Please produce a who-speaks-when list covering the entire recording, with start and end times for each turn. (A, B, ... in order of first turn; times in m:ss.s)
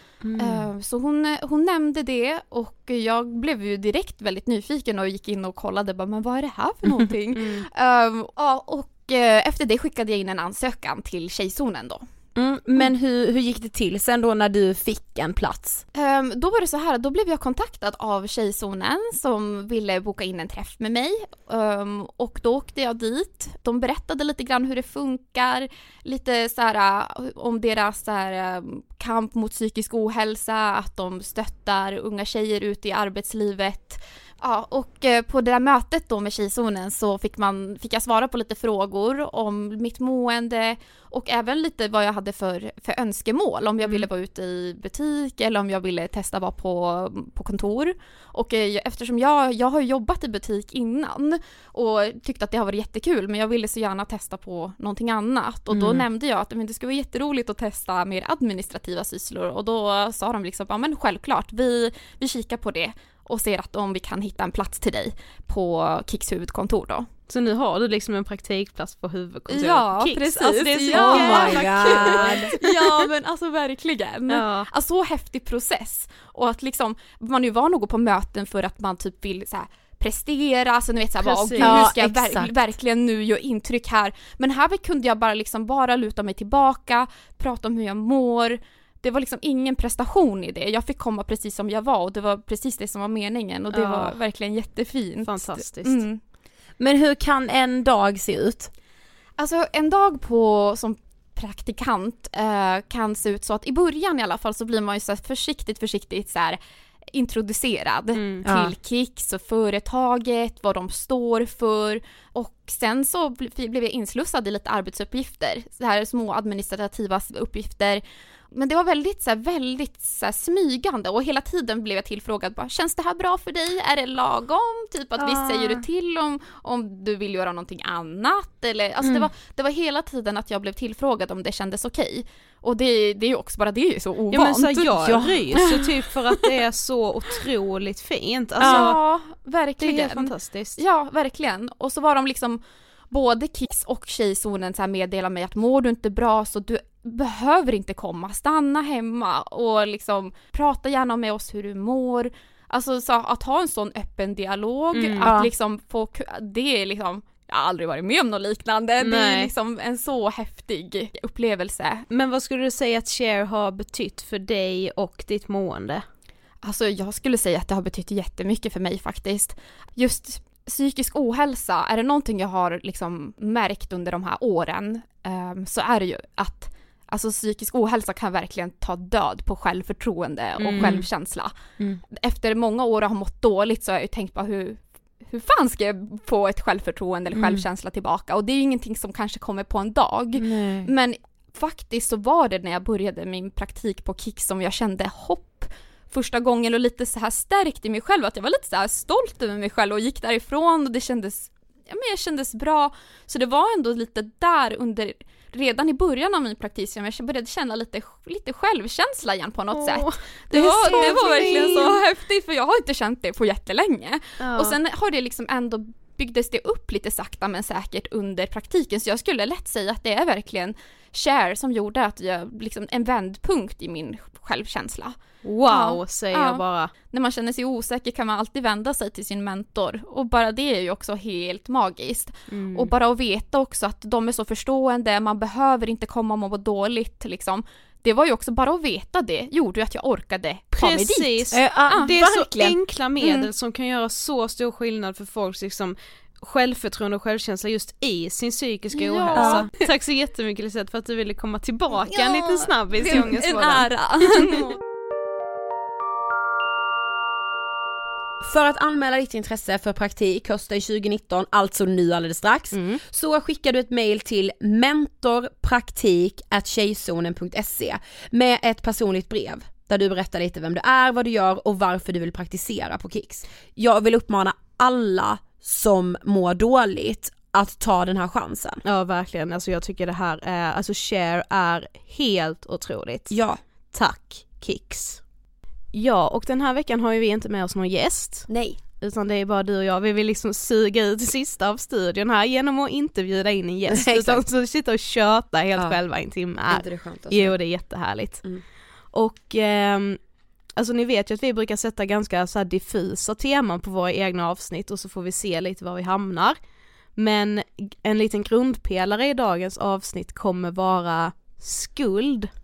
0:00.2-0:00.7 A
0:00.4-0:12.1 B
0:07.4-0:07.6 C
0:12.4-0:15.8 A
0:16.0-1:07.1 B
0:55.7-0:56.0 A
1:07.3-1:12.9 C
1:09.5-1:36.2 B
1:10.9-1:12.6 A
1:14.3-1:14.6 C
1:21.2-1:21.9 C
1:21.6-1:22.5 A
1:33.7-1:34.1 C
1:35.2-1:36.0 C
1:36.8-1:38.7 A
1:39.4-1:46.6 B
1:47.1-2:15.9 B
1:48.2-1:48.4 C
1:48.4-1:48.8 A
2:05.2-2:05.8 C
2:14.3-2:19.0 C
2:15.0-2:15.8 A
2:18.6-2:19.0 A
2:18.6-2:42.0 B
2:19.8-2:20.8 C
2:34.9-2:35.3 C
2:35.2-2:35.5 A
2:39.0-2:39.5 C
2:42.1-2:46.0 C
2:46.6-3:01.5 B
3:00.6-3:01.0 C
3:02.1-4:02.2 B
3:07.3-3:07.6 A
3:10.4-3:10.9 A
3:29.7-3:32.0 C
3:34.4-3:34.8 C
3:45.4-3:46.9 C
3:52.5-3:52.9 C
4:00.7-4:14.8 C
4:01.5-4:02.8 A
4:03.2-4:03.5 B
4:09.0-4:09.7 B
4:09.4-4:09.7 A
4:12.1-4:14.7 B
4:18.4-4:38.8 A
4:22.7-4:23.0 C
4:38.8-4:43.3 C
4:43.3-4:43.6 A
4:43.9-4:45.2 C
4:45.9-4:48.5 C
4:48.5-4:48.8 A
4:49.0-4:58.4 C
4:53.9-4:54.4 A
4:56.7-4:57.6 A
4:59.1-5:00.2 C
5:00.8-5:06.6 C
5:07.2-5:12.5 C